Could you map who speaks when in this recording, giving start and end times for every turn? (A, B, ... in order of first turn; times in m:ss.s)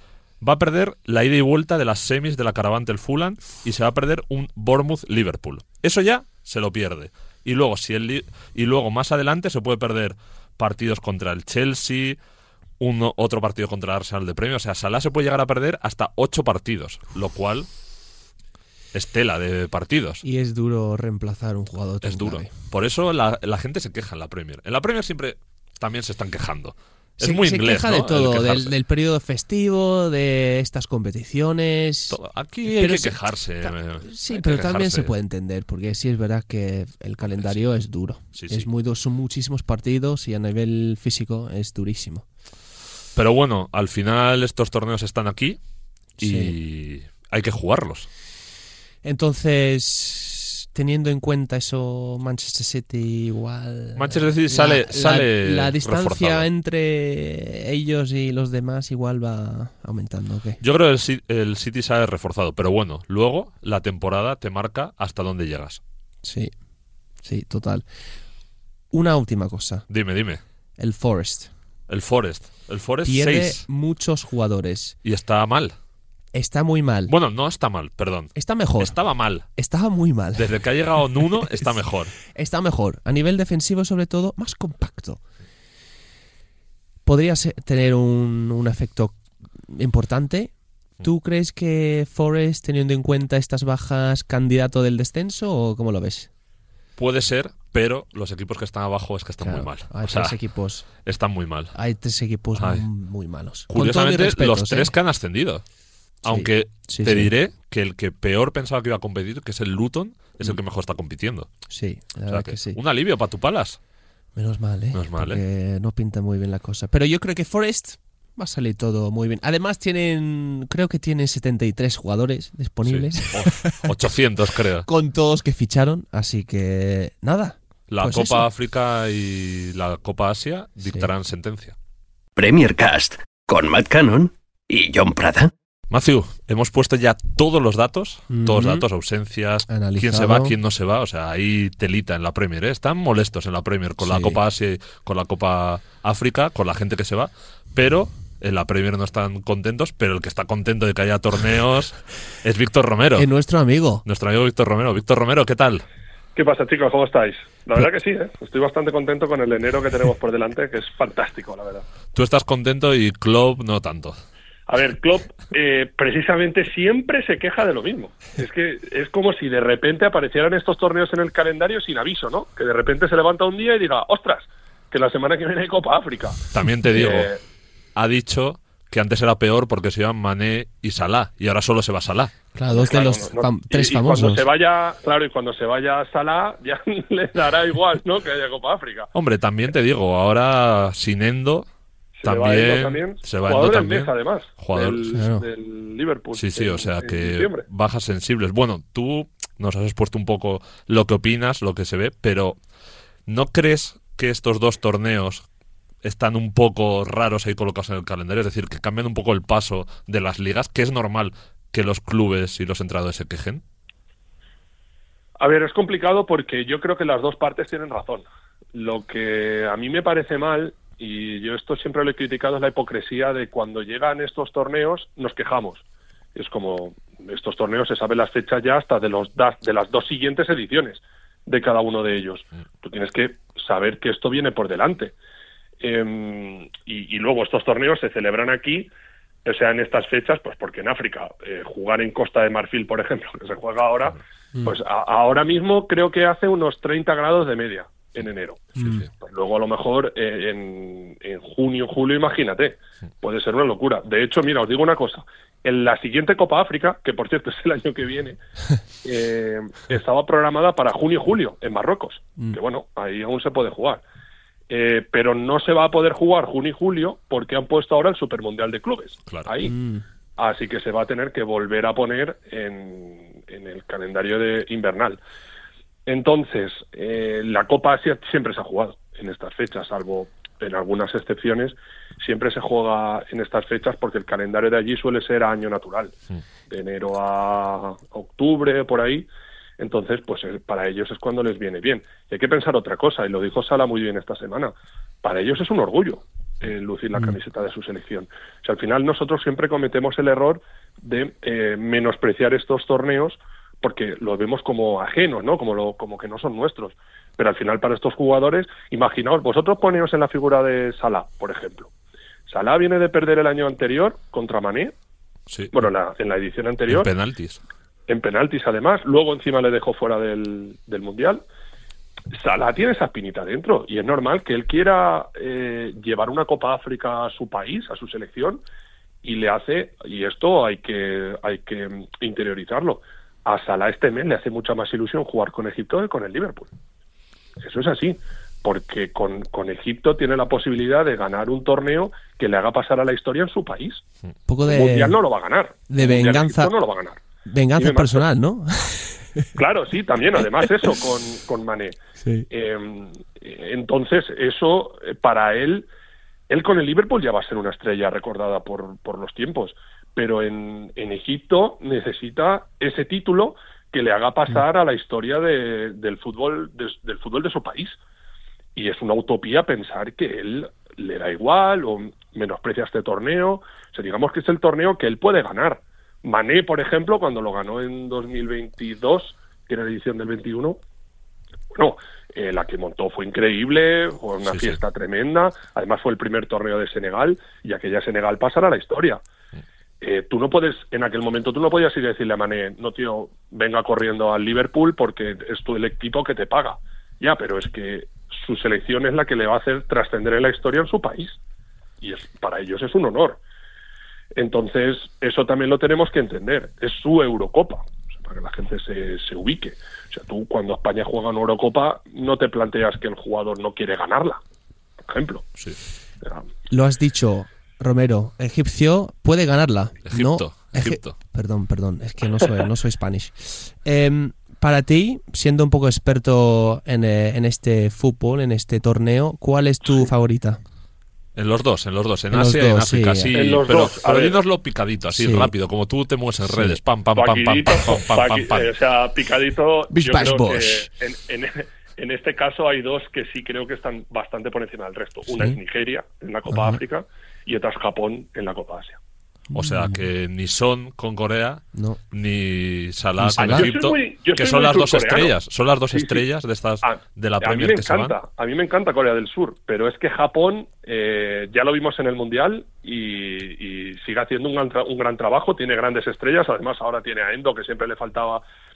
0:00.4-0:12.2 A
0:12.8-0:17.7 A
0:18.9-0:20.2 A
0:20.2-0:22.5 B
0:22.0-0:28.7 A
0:27.2-0:42.2 B
0:32.1-0:35.1 A
0:38.3-0:38.7 A
0:43.2-0:45.6 A
0:46.2-0:46.5 B
0:46.2-0:48.1 A
0:49.0-1:00.6 B
0:53.9-0:56.4 A
1:00.6-1:05.8 A
1:06.2-1:06.5 B
1:07.2-1:07.8 B
1:08.9-1:09.8 B
1:09.9-1:10.4 A
1:10.8-1:11.5 B
1:11.9-1:13.6 A
1:13.0-1:15.0 B
1:15.0-1:15.7 A
1:16.3-1:17.1 B
1:17.1-1:19.4 A
1:18.3-1:19.0 B
1:19.6-1:20.6 B
1:20.4-1:22.1 A
1:21.3-1:21.7 B
1:22.3-1:25.2 B
1:27.0-1:29.2 B
1:29.7-1:30.5 B
1:31.0-1:36.3 B
1:37.0-1:40.4 A
1:39.4-1:40.9 B
1:41.0-1:41.7 A
1:41.7-1:44.9 B
1:42.6-1:42.8 A
1:43.7-1:45.6 A
1:46.2-1:51.5 A
1:46.2-1:47.3 B
1:51.7-1:52.8 B
1:52.3-1:53.8 A
1:54.4-2:03.9 B
1:54.9-1:55.4 A
2:02.8-2:04.9 A
2:04.8-2:08.5 B
2:07.9-2:11.8 A
2:12.4-2:15.5 C
2:15.9-2:33.3 A
2:18.3-2:18.8 B
2:19.7-2:20.6 B
2:24.0-2:24.4 B
2:33.2-2:34.0 B
2:34.0-2:35.8 A
2:36.4-2:41.8 D
2:42.1-2:44.2 A
2:44.7-2:57.4 D
2:56.5-2:57.3 A
2:58.0-3:02.3 A
3:02.5-3:04.4 B
3:02.7-3:09.1 D
3:09.1-3:11.7 A
3:12.2-3:17.6 D
3:12.2-3:15.0 A
3:15.1-3:15.4 B
3:16.3-3:22.6 A
3:23.3-3:25.4 A
3:26.0-3:33.6 A
3:35.4-3:45.8 D
3:46.3-3:55.1 D
3:55.8-3:58.9 D
3:59.4-4:18.4 D
4:08.8-4:09.0 B
4:19.0-4:24.0 D
4:24.7-4:29.7 D
4:29.6-4:30.0 B
4:30.4-4:35.2 D
4:36.1-4:46.1 D
4:46.7-5:11.9 D
5:12.5-5:14.9 D
5:15.5-5:15.8 A
5:15.7-5:17.1 D
5:16.9-5:17.6 A
5:18.1-5:21.4 D
5:22.3-5:28.6 D
5:29.2-5:36.7 D
5:37.6-5:44.0 D
5:44.5-5:45.2 B
5:44.6-5:47.2 D
5:45.9-5:46.7 B
5:47.4-5:49.5 B
5:47.8-5:48.2 D
5:49.6-5:52.0 D
5:52.2-5:52.5 B
5:52.5-5:55.9 D
5:56.5-6:08.0 D
6:08.8-6:20.8 D
6:21.7-6:29.2 D
6:24.5-6:24.8 A
6:30.0-6:41.4 D
6:42.0-6:43.4 D
6:44.4-6:54.4 D
6:55.0-6:55.4 D
6:56.2-6:56.5 D
6:56.7-7:10.6 B
7:00.0-7:01.2 A
7:11.4-7:18.7 A
7:12.3-7:13.3 B
7:13.3-7:14.4 D
7:15.1-7:15.5 B
7:16.4-7:16.8 B
7:17.1-7:29.0 D
7:19.9-7:20.9 B
7:26.5-7:26.8 B
7:29.5-7:30.1 B
7:29.5-7:38.2 A
7:31.7-7:32.0 B
7:33.2-7:33.7 B
7:33.4-7:35.3 D
7:35.9-7:36.2 D
7:36.8-7:48.4 D